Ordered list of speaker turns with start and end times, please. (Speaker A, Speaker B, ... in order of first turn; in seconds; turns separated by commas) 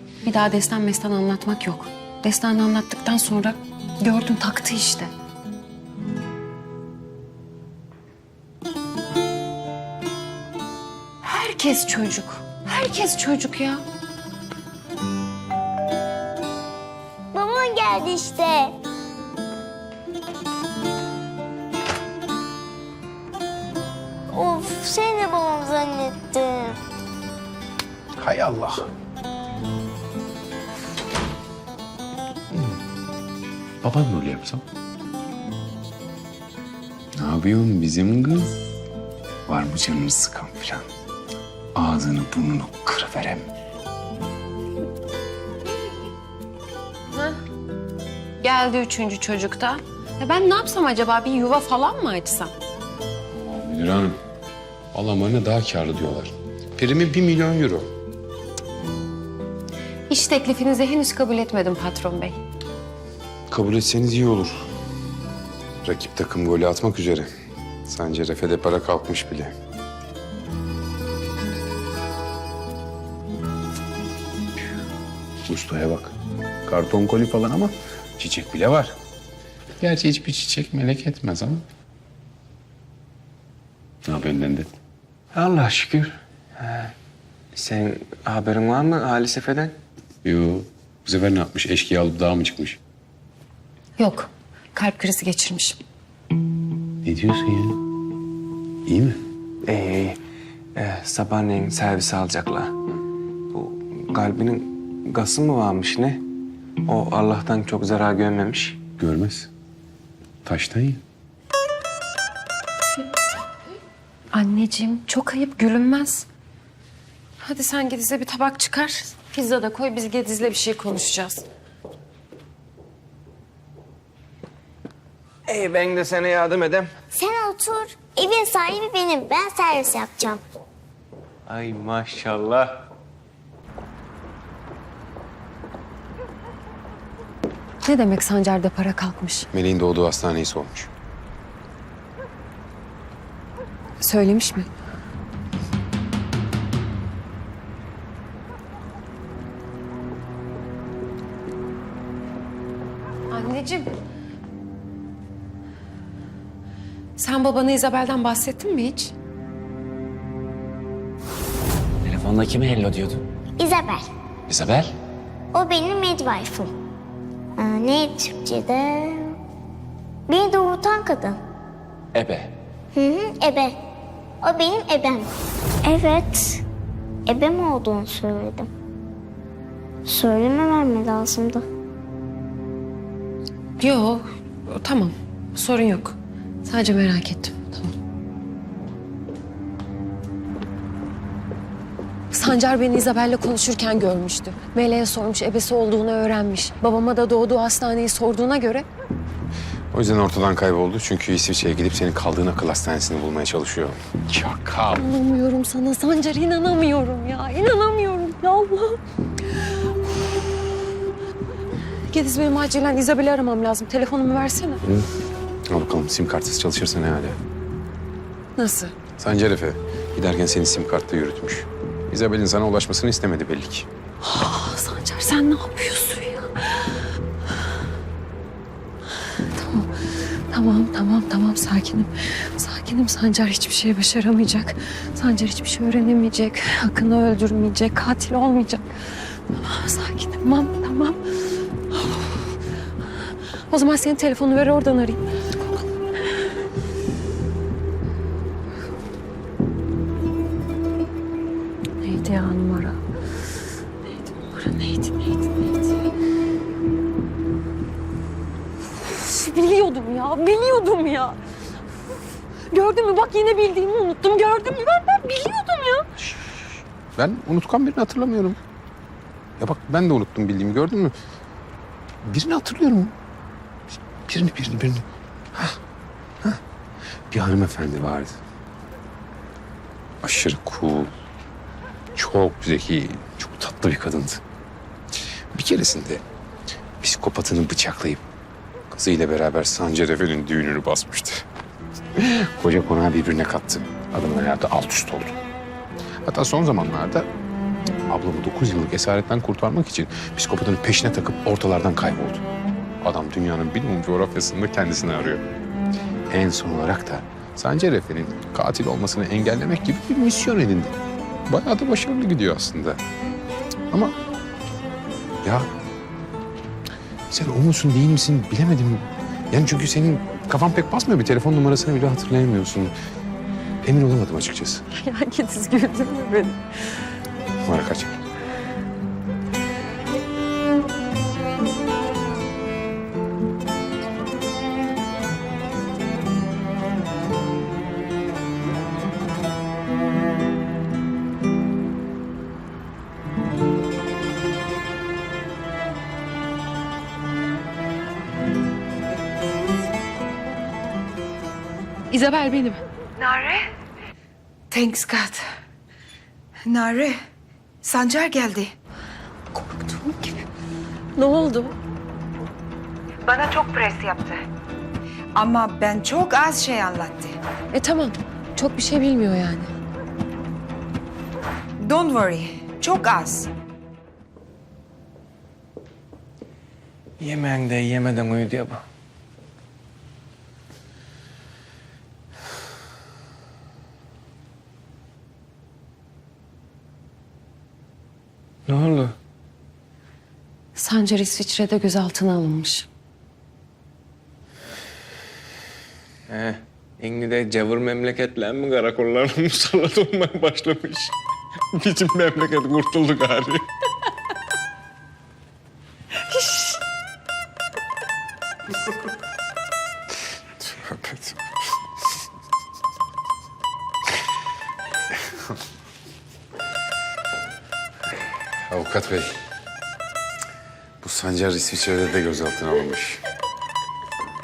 Speaker A: 0.2-5.1, Speaker A: 11.2-13.8, Speaker B: 17.3-18.8, Speaker B: 24.3-26.8, Speaker C: 28.2-28.9, Speaker C: 32.5-32.8, Speaker C: 33.8-34.6, Speaker C: 37.1-38.5, Speaker C: 39.5-40.9, Speaker C: 41.7-43.5, Speaker A: 47.1-47.4, Speaker A: 48.4-52.5, Speaker C: 53.3-54.2, Speaker C: 54.9-57.9, Speaker A: 60.1-62.4, Speaker C: 63.5-64.6, Speaker C: 65.8-67.3, Speaker C: 67.8-69.5, Speaker C: 75.5-76.1, Speaker C: 76.7-79.0, Speaker C: 79.8-81.6, Speaker C: 84.0-84.7, Speaker D: 85.3-86.9, Speaker D: 87.5-89.7, Speaker C: 90.2-92.8, Speaker A: 94.0-95.8, Speaker C: 97.0-97.8, Speaker C: 98.8-99.2, Speaker D: 99.6-100.2, Speaker D: 100.7-102.8, Speaker D: 103.5-106.2, Speaker D: 106.8-108.8, Speaker C: 109.0-109.5, Speaker C: 110.4-111.0, Speaker A: 114.3-116.3, Speaker A: 117.4-121.4, Speaker D: 125.5-126.9, Speaker B: 127.1-130.4, Speaker D: 131.5-132.8, Speaker A: 137.8-139.5, Speaker C: 139.5-140.9, Speaker A: 144.0-144.7, Speaker A: 153.3-153.9, Speaker A: 157.2-159.1, Speaker E: 162.0-163.2, Speaker B: 163.6-164.1, Speaker E: 164.5-164.9, Speaker B: 165.5-166.7, Speaker B: 167.6-169.4, Speaker B: 170.3-171.4, Speaker E: 172.1-172.5, Speaker B: 172.9-173.8, Speaker B: 174.4-175.3, Speaker B: 175.8-176.6, Speaker B: 177.3-178.7, Speaker B: 180.1-181.7, Speaker A: 183.8-187.9, Speaker A: 192.3-198.8, Speaker C: 199.9-205.1, Speaker A: 204.9-209.0, Speaker A: 212.1-214.8, Speaker C: 215.7-217.4, Speaker A: 218.6-218.9, Speaker C: 219.2-223.9, Speaker A: 224.2-227.0, Speaker A: 229.5-241.2, Speaker A: 241.9-242.5, Speaker A: 243.7-245.2, Speaker A: 252.0-253.0, Speaker A: 254.2-255.9, Speaker A: 259.1-261.4, Speaker A: 262.7-266.1, Speaker C: 267.1-268.6, Speaker C: 269.6-271.1, Speaker C: 272.2-273.1, Speaker C: 274.3-275.8, Speaker C: 277.3-278.4, Speaker C: 280.2-281.1, Speaker C: 282.1-284.4, Speaker C: 285.5-286.2, Speaker C: 287.0-288.2, Speaker C: 288.9-291.4, Speaker C: 292.1-295.4, Speaker C: 296.2-297.3, Speaker C: 298.1-302.4, Speaker C: 303.0-305.4, Speaker C: 306.3-310.9, Speaker C: 311.5-313.0, Speaker C: 315.4-315.7, Speaker C: 317.3-322.9, Speaker C: 323.8-324.8, Speaker A: 324.9-326.6, Speaker C: 327.6-328.1, Speaker A: 352.1-352.8, Speaker F: 353.2-353.6, Speaker F: 354.7-355.4, Speaker F: 356.6-357.2, Speaker F: 357.8-358.7, Speaker A: 359.5-360.5, Speaker A: 361.1-361.8, Speaker F: 363.2-364.4, Speaker F: 365.4-367.4, Speaker A: 367.7-369.7, Speaker F: 371.8-373.5, Speaker D: 377.2-378.8, Speaker D: 388.7-389.1, Speaker A: 390.8-392.9, Speaker D: 396.3-401.1, Speaker D: 401.7-403.7, Speaker C: 410.6-411.4, Speaker C: 418.7-419.4, Speaker C: 421.0-423.2